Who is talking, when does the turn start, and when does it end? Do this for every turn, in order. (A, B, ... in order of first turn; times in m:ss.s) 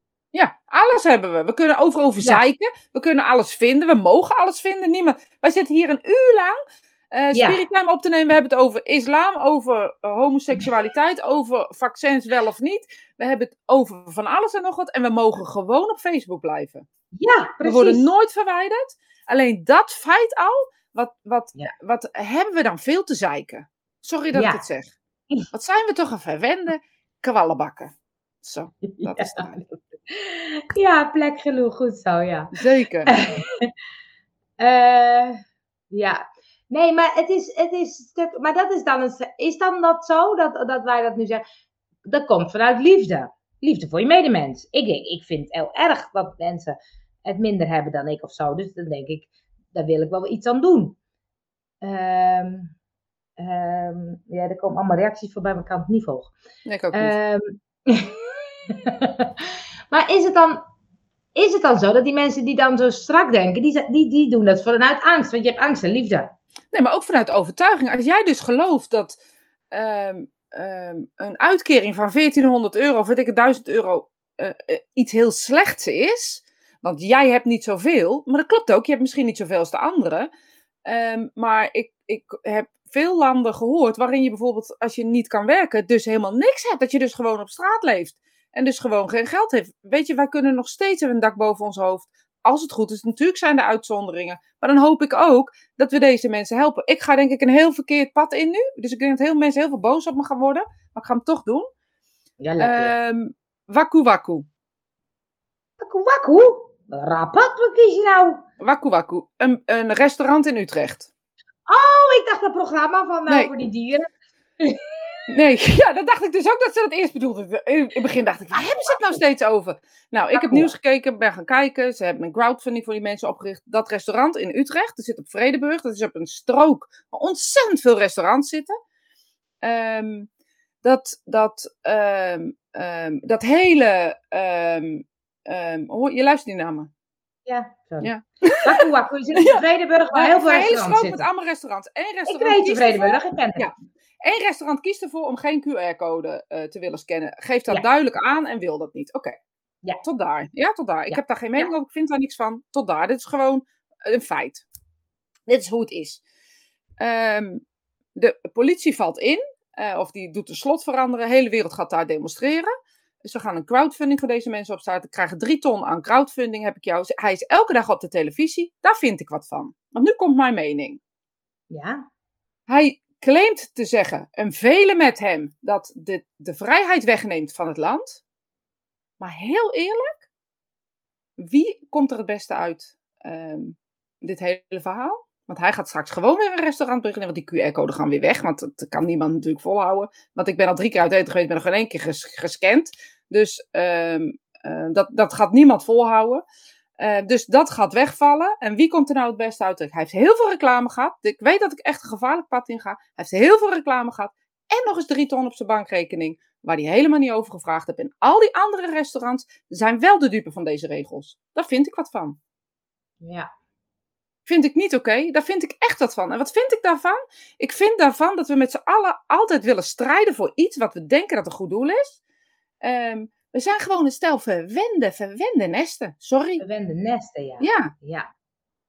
0:00.3-0:06.6 A
0:07.1-0:16.8 A
0:07.3-0:07.6 B
0:17.2-0:18.0 B
0:17.6-0:24.9 A
0:24.3-0:24.6 B
0:25.5-0:29.6 A
0:28.9-0:32.5 B
0:32.5-0:33.1 A
0:33.0-0:33.7 B
0:34.6-0:35.4 B
0:35.9-0:41.4 B
0:42.0-0:51.0 B
0:51.8-0:52.7 B
0:53.4-0:56.3 B
0:56.6-0:57.2 A
0:56.9-1:00.6 B
1:01.4-1:06.3 B
1:06.7-1:09.2 A
1:09.7-1:20.3 A
1:20.8-1:41.7 A
1:42.4-1:42.9 B
1:42.6-1:44.5 A
1:45.8-1:48.4 B
1:48.6-1:51.1 A
1:51.7-1:54.1 B
1:55.3-2:08.7 A
1:58.6-1:59.1 B
2:00.3-2:00.7 B
2:09.6-2:10.3 A
2:10.8-2:16.9 A
2:17.4-2:18.1 B
2:18.0-2:18.6 A
2:18.6-2:21.3 B
2:20.1-2:29.3 A
2:22.3-2:23.7 B
2:30.0-2:34.6 A
2:31.1-2:31.7 B
2:35.5-2:36.2 A
2:37.0-2:37.6 A
2:38.1-2:51.0 A
2:51.7-2:52.0 B
2:52.7-2:58.2 A
2:59.2-3:00.2 A
3:01.4-3:16.4 A
3:17.0-3:32.4 A
3:33.2-3:33.5 B
3:34.4-3:42.2 A
3:42.8-3:46.6 A
3:46.6-3:48.3 B
3:47.6-3:47.9 A